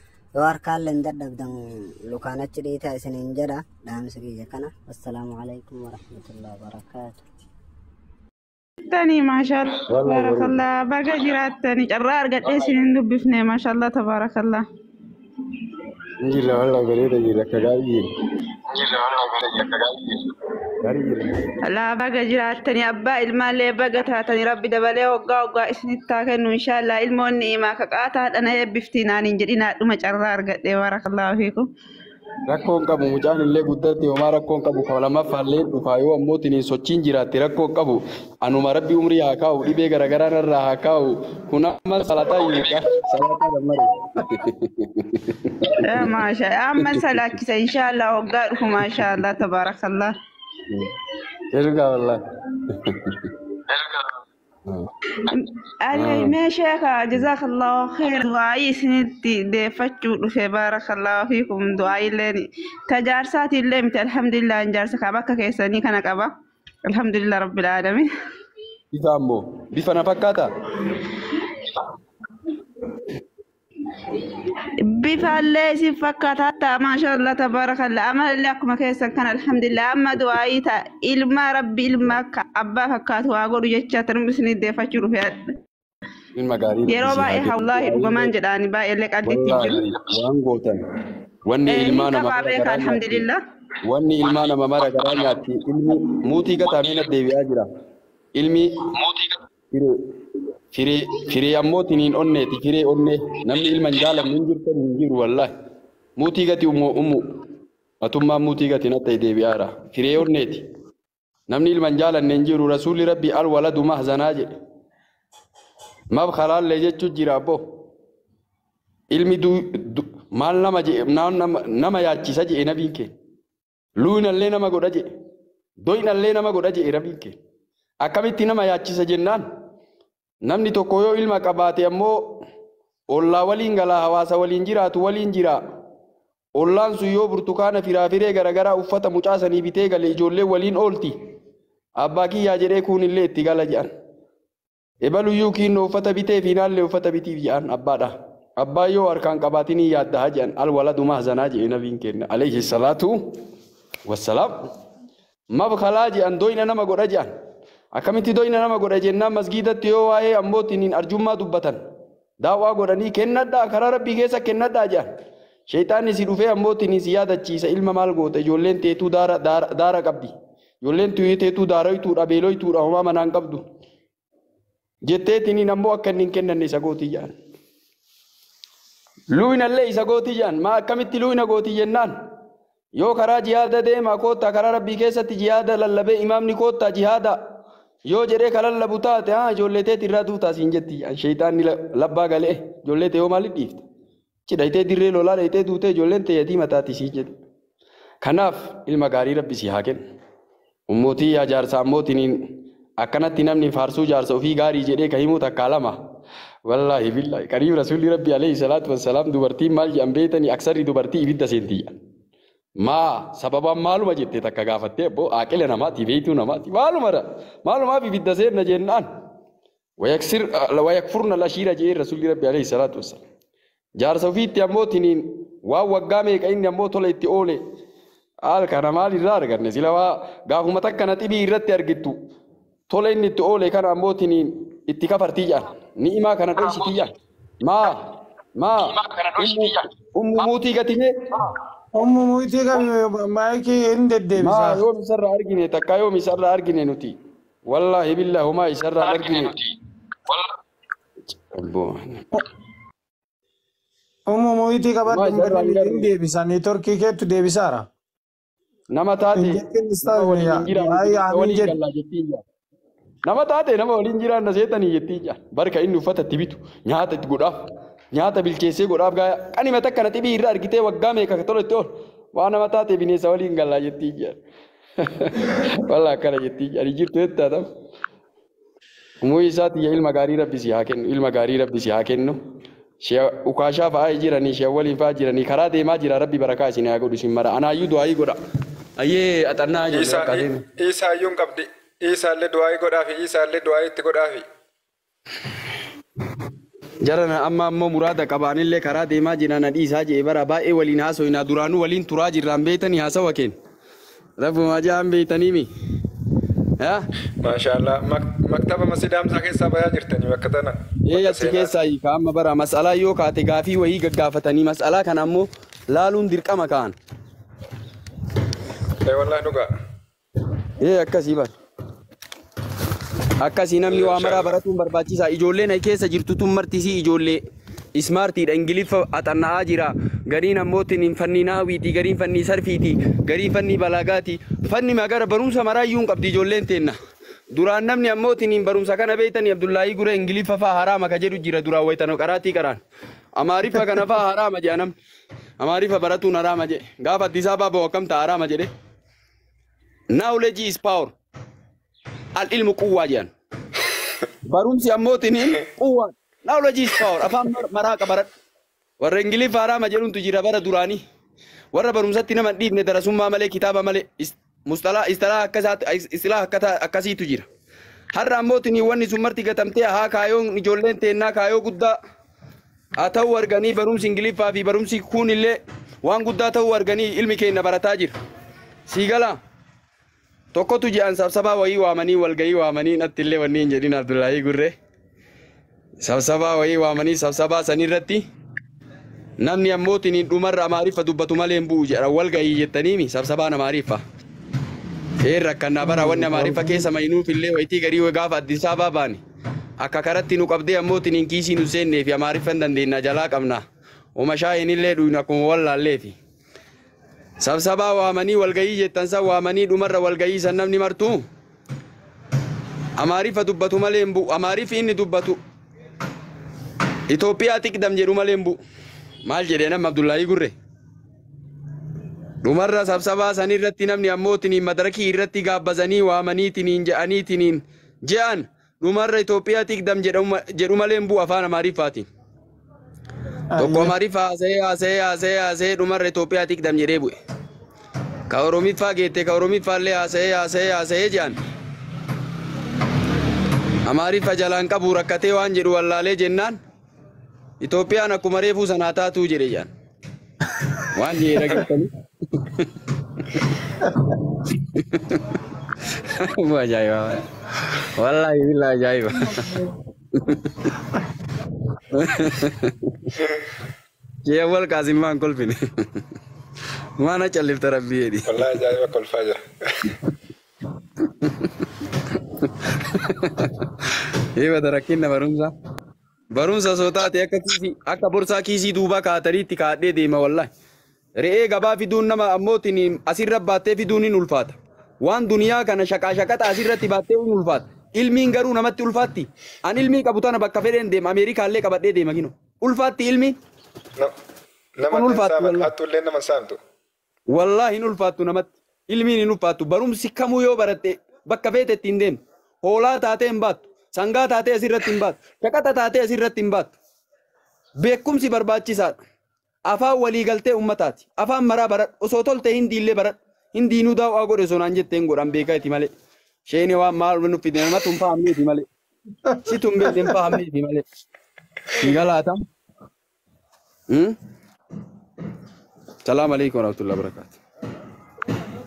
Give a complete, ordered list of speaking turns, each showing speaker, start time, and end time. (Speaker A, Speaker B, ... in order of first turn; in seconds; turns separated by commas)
Speaker A: 0.4-7.2, Speaker B: 8.9-14.6, Speaker C: 9.9-10.6, Speaker C: 16.2-18.1, Speaker C: 20.8-21.5, Speaker B: 21.6-31.7, Speaker C: 32.5-46.0, Speaker B: 45.8-50.1, Speaker C: 46.8-47.3, Speaker C: 51.5-53.3, Speaker B: 55.2-66.3, Speaker C: 55.9-56.4, Speaker B: 66.9-68.1, Speaker C: 68.9-70.7, Speaker B: 74.8-85.4, Speaker C: 86.3-88.3, Speaker B: 86.9-89.8, Speaker C: 89.2-90.8, Speaker C: 91.5-93.3, Speaker B: 91.7-93.4, Speaker C: 93.8-97.7, Speaker C: 98.3-99.0, Speaker C: 99.7-100.0, Speaker C: 100.7-105.5, Speaker C: 106.2-107.2, Speaker C: 108.0-110.7, Speaker C: 111.5-114.5, Speaker C: 116.1-117.6, Speaker C: 119.1-123.1, Speaker C: 124.0-125.1, Speaker C: 125.8-127.4, Speaker C: 128.0-129.4, Speaker C: 130.4-132.4, Speaker C: 133.1-135.6, Speaker C: 136.6-141.2, Speaker C: 142.0-143.9, Speaker C: 145.0-153.3, Speaker C: 154.1-154.7, Speaker C: 155.5-157.3, Speaker C: 157.9-161.8, Speaker C: 162.4-165.1, Speaker C: 165.7-173.7, Speaker C: 175.0-177.3, Speaker C: 179.3-182.1, Speaker C: 183.0-187.4, Speaker C: 188.1-193.8, Speaker C: 194.5-197.3, Speaker C: 198.2-200.0, Speaker C: 200.9-202.4, Speaker C: 203.0-206.0, Speaker C: 206.7-211.9, Speaker C: 212.8-219.1, Speaker C: 220.0-223.2, Speaker C: 224.0-227.6, Speaker C: 228.4-232.2, Speaker C: 232.9-241.1, Speaker D: 241.9-244.8, Speaker C: 244.4-247.2, Speaker C: 247.7-249.6, Speaker C: 251.5-252.2, Speaker D: 254.3-257.9, Speaker C: 255.1-256.1, Speaker C: 258.9-262.4, Speaker D: 259.4-261.8, Speaker C: 263.2-267.6, Speaker C: 268.1-274.4, Speaker C: 275.0-277.6, Speaker C: 279.2-282.4, Speaker C: 283.0-288.4, Speaker C: 289.0-290.6, Speaker E: 289.9-294.4, Speaker C: 297.0-303.5, Speaker C: 304.4-305.7, Speaker C: 306.8-307.1, Speaker E: 307.4-311.7, Speaker C: 311.1-316.9, Speaker E: 319.0-319.7, Speaker C: 320.8-321.5, Speaker C: 323.4-327.4, Speaker E: 323.9-324.6, Speaker C: 327.9-336.9, Speaker C: 337.5-342.8, Speaker C: 343.4-344.9, Speaker C: 345.6-348.7, Speaker C: 350.1-351.1, Speaker C: 352.4-353.3, Speaker C: 354.4-358.3, Speaker C: 359.0-361.0, Speaker C: 361.7-367.5, Speaker C: 368.1-372.0, Speaker C: 373.0-378.1, Speaker C: 378.9-379.4, Speaker C: 380.5-384.7, Speaker C: 386.0-388.2, Speaker C: 389.4-394.0, Speaker C: 395.2-399.2, Speaker D: 395.9-396.7, Speaker C: 399.8-403.6, Speaker C: 404.2-406.2, Speaker C: 407.4-411.2, Speaker C: 413.0-415.4, Speaker C: 417.1-418.6, Speaker C: 419.2-420.6, Speaker C: 422.4-432.1, Speaker D: 433.5-433.9, Speaker C: 433.6-437.2, Speaker C: 438.3-441.4, Speaker C: 443.9-446.6, Speaker C: 447.6-449.7, Speaker C: 450.6-453.6, Speaker C: 454.2-460.7, Speaker C: 461.8-463.1, Speaker C: 464.2-466.1, Speaker C: 467.0-468.7, Speaker E: 468.3-469.9, Speaker C: 471.0-475.5, Speaker C: 476.3-480.5, Speaker C: 481.2-493.4, Speaker E: 494.8-496.6, Speaker C: 494.9-495.7, Speaker C: 497.3-506.8, Speaker C: 507.8-509.0, Speaker C: 509.7-515.9, Speaker C: 516.5-518.7, Speaker C: 519.4-520.8, Speaker C: 521.7-522.4, Speaker C: 523.9-524.2, Speaker C: 526.0-527.4